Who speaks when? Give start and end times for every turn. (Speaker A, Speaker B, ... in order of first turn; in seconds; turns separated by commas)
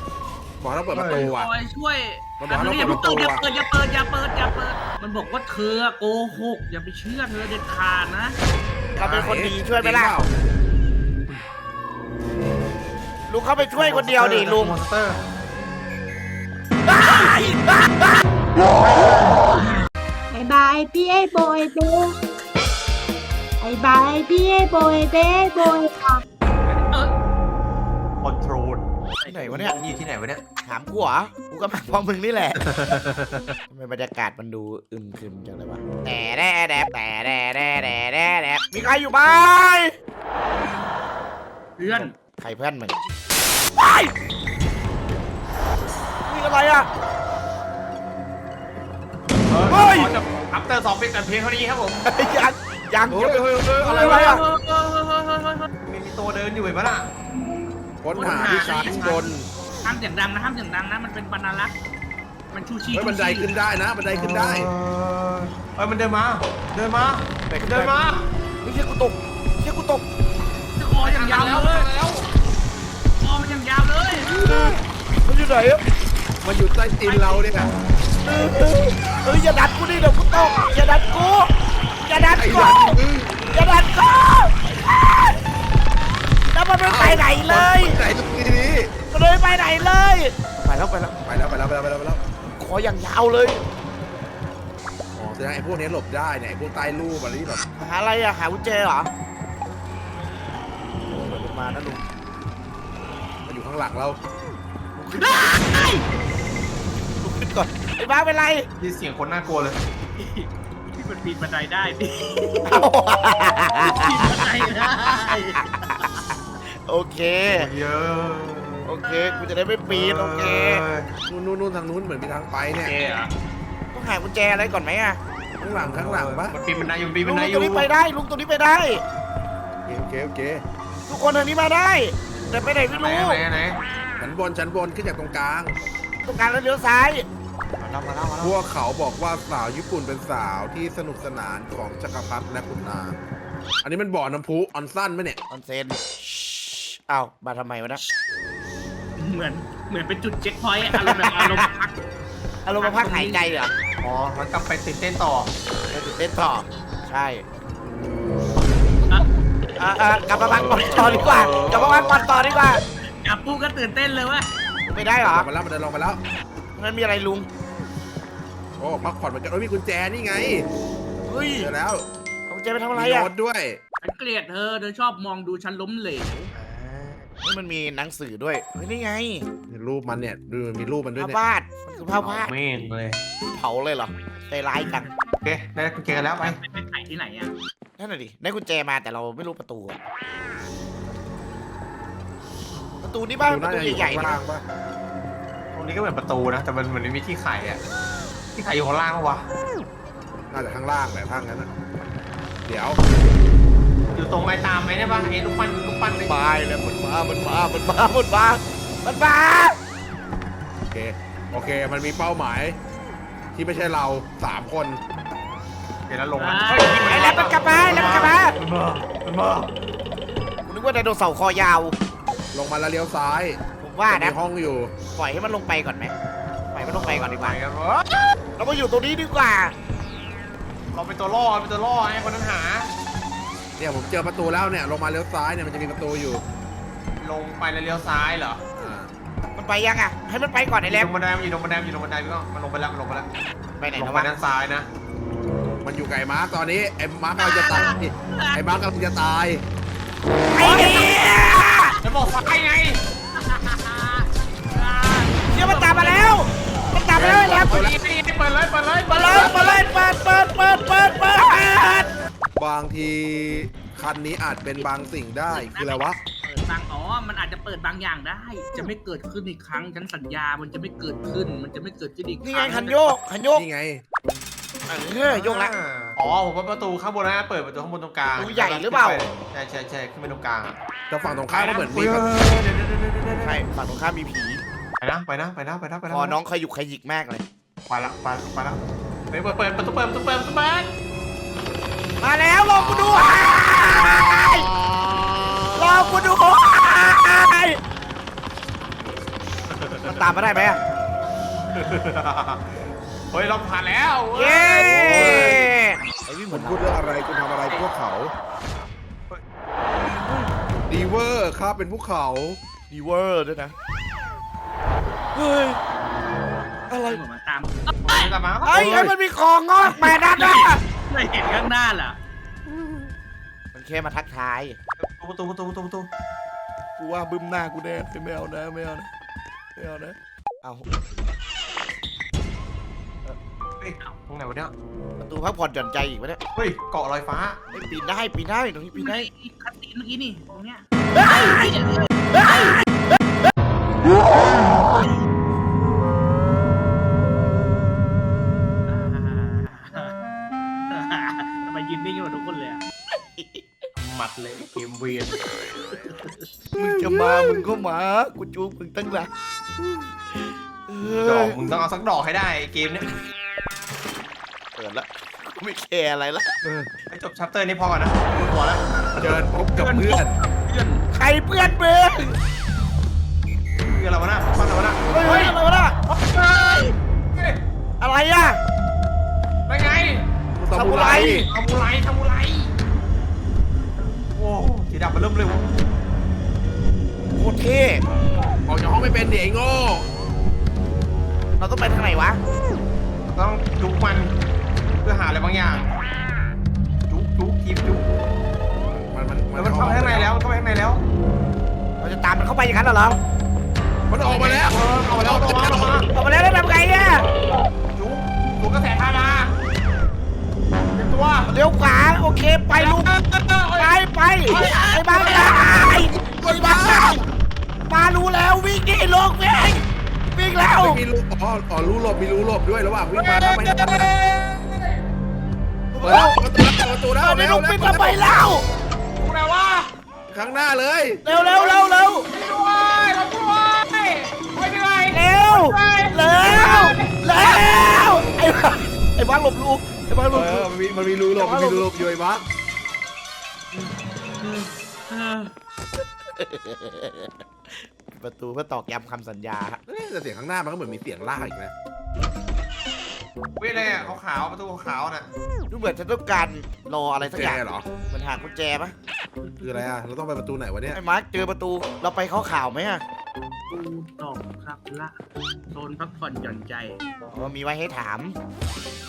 Speaker A: 0.6-1.5, Speaker B: 0.9-1.3, Speaker C: 1.0-8.4, Speaker A: 2.4-3.4, Speaker D: 9.0-10.2, Speaker B: 9.0-9.3, Speaker A: 9.2-10.3, Speaker D: 13.3-14.8, Speaker B: 13.7-15.2, Speaker D: 16.9-17.8, Speaker E: 20.3-22.1, Speaker E: 23.6-26.2, Speaker C: 26.7-27.1, Speaker B: 28.2-30.4, Speaker D: 29.3-29.8, Speaker D: 30.6-32.7, Speaker B: 32.6-33.6, Speaker D: 33.7-39.9, Speaker C: 41.8-42.1, Speaker B: 41.8-42.1, Speaker D: 42.4-42.9, Speaker D: 43.8-44.1, Speaker D: 46.2-46.9, Speaker B: 49.5-52.0, Speaker D: 49.7-50.2, Speaker D: 52.0-54.4, Speaker A: 53.1-54.4, Speaker C: 53.8-55.7, Speaker B: 54.0-54.4, Speaker B: 55.8-57.1, Speaker A: 58.0-59.5, Speaker C: 58.1-59.3, Speaker B: 58.2-59.3, Speaker C: 59.8-61.8, Speaker C: 62.5-63.5, Speaker A: 62.9-64.7, Speaker B: 64.1-68.3, Speaker D: 67.5-68.0, Speaker D: 68.6-70.0, Speaker C: 70.8-71.9, Speaker B: 71.0-72.3, Speaker C: 73.2-74.4, Speaker D: 74.3-75.8, Speaker A: 76.4-77.7, Speaker C: 77.0-77.7, Speaker D: 78.2-81.5, Speaker D: 82.0-85.4, Speaker A: 82.4-83.5, Speaker D: 86.5-88.0, Speaker A: 86.9-88.9, Speaker D: 89.1-91.2, Speaker A: 91.2-92.2, Speaker D: 92.6-93.6, Speaker A: 95.2-97.6, Speaker D: 97.8-99.1, Speaker D: 101.1-102.0, Speaker A: 103.5-104.2, Speaker D: 105.0-105.9, Speaker C: 105.2-106.0, Speaker D: 107.2-108.7, Speaker B: 108.8-109.8, Speaker C: 110.2-112.9, Speaker D: 112.7-116.1, Speaker C: 113.8-115.7, Speaker D: 116.6-117.7, Speaker B: 117.5-119.0, Speaker D: 118.8-120.8, Speaker B: 119.9-121.1, Speaker A: 121.2-122.9, Speaker B: 122.7-123.3, Speaker D: 123.9-125.2, Speaker A: 125.6-126.5, Speaker B: 125.8-127.9, Speaker D: 127.2-129.0, Speaker A: 129.9-130.6, Speaker D: 131.1-133.4, Speaker B: 132.9-133.8, Speaker A: 134.2-135.8, Speaker D: 136.2-137.3, Speaker B: 137.8-138.6, Speaker A: 138.4-143.2, Speaker A: 143.8-145.4, Speaker D: 145.5-148.0, Speaker C: 149.2-152.0, Speaker D: 150.9-151.7, Speaker D: 152.7-153.7, Speaker C: 152.7-153.6, Speaker B: 154.0-155.5, Speaker D: 155.9-157.4, Speaker D: 159.8-162.8, Speaker B: 160.5-162.2, Speaker C: 163.2-164.5, Speaker D: 164.9-165.5, Speaker A: 165.3-166.2, Speaker D: 166.8-167.5, Speaker A: 168.8-170.7, Speaker D: 171.3-171.7, Speaker A: 171.6-172.1, Speaker D: 172.5-173.3, Speaker A: 172.9-173.8, Speaker C: 174.0-176.5, Speaker B: 176.5-177.2, Speaker D: 177.4-179.5, Speaker A: 179.7-181.4, Speaker D: 181.2-182.6, Speaker B: 182.2-183.2, Speaker D: 183.5-185.1, Speaker B: 185.4-186.6, Speaker C: 186.4-187.5, Speaker D: 188.0-190.0, Speaker D: 193.0-194.4, Speaker A: 193.4-194.6, Speaker B: 195.7-197.8, Speaker B: 198.6-199.4, Speaker A: 200.5-201.7, Speaker A: 202.7-203.0, Speaker B: 204.1-206.4, Speaker D: 206.2-209.8, Speaker A: 210.9-212.8, Speaker A: 213.5-215.0, Speaker B: 216.1-219.7, Speaker C: 216.4-217.5, Speaker D: 217.1-218.6, Speaker D: 220.7-222.0, Speaker A: 222.5-224.9, Speaker D: 223.8-224.4, Speaker D: 225.1-226.1, Speaker D: 226.7-227.6, Speaker B: 226.8-228.3, Speaker D: 228.6-229.8, Speaker B: 230.9-232.9, Speaker A: 233.8-236.4, Speaker B: 237.2-238.6, Speaker A: 238.8-239.1, Speaker D: 239.6-241.1, Speaker B: 240.8-243.3, Speaker D: 243.8-244.3, Speaker B: 243.9-244.9, Speaker A: 245.8-249.6, Speaker C: 247.4-248.8, Speaker D: 250.5-252.0, Speaker B: 250.6-251.2, Speaker B: 252.0-253.0, Speaker C: 253.3-256.5, Speaker D: 255.5-257.9, Speaker B: 257.1-259.8, Speaker A: 257.2-258.0, Speaker D: 259.1-262.1, Speaker A: 259.2-259.7, Speaker A: 262.6-266.2, Speaker C: 265.5-272.6, Speaker D: 272.4-273.7, Speaker B: 272.6-273.0, Speaker A: 273.5-274.0, Speaker D: 274.9-275.8, Speaker B: 275.2-280.8, Speaker D: 278.3-279.2, Speaker A: 281.1-282.3, Speaker B: 281.5-283.6, Speaker D: 283.4-284.6, Speaker B: 285.0-286.4, Speaker D: 286.1-287.4, Speaker B: 287.9-290.9, Speaker D: 292.2-294.7, Speaker A: 292.8-296.4, Speaker D: 295.8-297.8, Speaker B: 299.7-300.3, Speaker D: 300.0-300.8, Speaker B: 301.7-305.7, Speaker D: 304.3-307.0, Speaker A: 304.7-305.6, Speaker A: 306.5-308.3, Speaker A: 310.9-312.6, Speaker D: 312.9-313.8, Speaker D: 315.3-315.8, Speaker D: 316.9-317.2, Speaker C: 317.1-318.9, Speaker B: 318.1-319.1, Speaker D: 318.6-320.8, Speaker C: 319.8-322.2, Speaker D: 323.7-324.8, Speaker B: 325.0-326.1, Speaker D: 327.0-329.1, Speaker D: 329.8-330.9, Speaker B: 333.8-334.7, Speaker D: 335.2-336.4, Speaker B: 336.6-337.6, Speaker D: 337.7-339.3, Speaker C: 338.9-342.8, Speaker C: 348.9-350.2, Speaker C: 350.9-352.8, Speaker D: 353.4-353.7, Speaker B: 354.0-355.4, Speaker D: 356.8-361.7, Speaker B: 361.2-363.1, Speaker D: 364.8-366.6, Speaker A: 366.6-366.9, Speaker B: 367.1-369.4, Speaker A: 369.2-370.4, Speaker C: 369.8-371.0, Speaker D: 371.1-372.4, Speaker B: 373.8-377.6, Speaker D: 375.1-376.0, Speaker D: 378.0-378.6, Speaker B: 379.7-380.3, Speaker A: 380.6-381.5, Speaker D: 380.7-381.5, Speaker B: 381.1-382.7, Speaker B: 384.3-385.6, Speaker D: 387.4-388.1, Speaker A: 388.7-390.1, Speaker D: 391.6-392.4, Speaker B: 393.3-394.4, Speaker B: 395.0-396.0, Speaker B: 397.1-398.1, Speaker A: 399.1-400.4, Speaker B: 399.5-401.0, Speaker D: 402.0-403.2, Speaker A: 404.1-406.0, Speaker B: 404.2-406.1, Speaker D: 406.1-407.3, Speaker B: 407.9-409.6, Speaker B: 410.9-411.5, Speaker D: 411.5-413.2, Speaker B: 412.7-415.7, Speaker D: 413.8-417.2, Speaker A: 416.2-417.2, Speaker D: 417.9-421.0, Speaker A: 420.7-424.1, Speaker B: 423.1-425.0, Speaker D: 425.9-428.7, Speaker A: 426.0-428.5, Speaker B: 429.2-429.9, Speaker A: 430.3-431.2, Speaker D: 431.2-432.3, Speaker B: 431.5-438.2, Speaker D: 435.1-440.7, Speaker B: 440.3-441.2, Speaker A: 440.5-442.4, Speaker D: 441.4-442.0, Speaker C: 443.7-445.5, Speaker D: 446.3-449.8, Speaker A: 449.9-451.7, Speaker B: 453.6-455.3, Speaker A: 453.7-454.1, Speaker D: 455.7-458.9, Speaker A: 457.3-457.9, Speaker C: 459.4-459.9, Speaker A: 459.6-461.0, Speaker D: 460.9-463.0, Speaker C: 463.7-465.2, Speaker C: 465.7-467.0, Speaker D: 467.3-468.4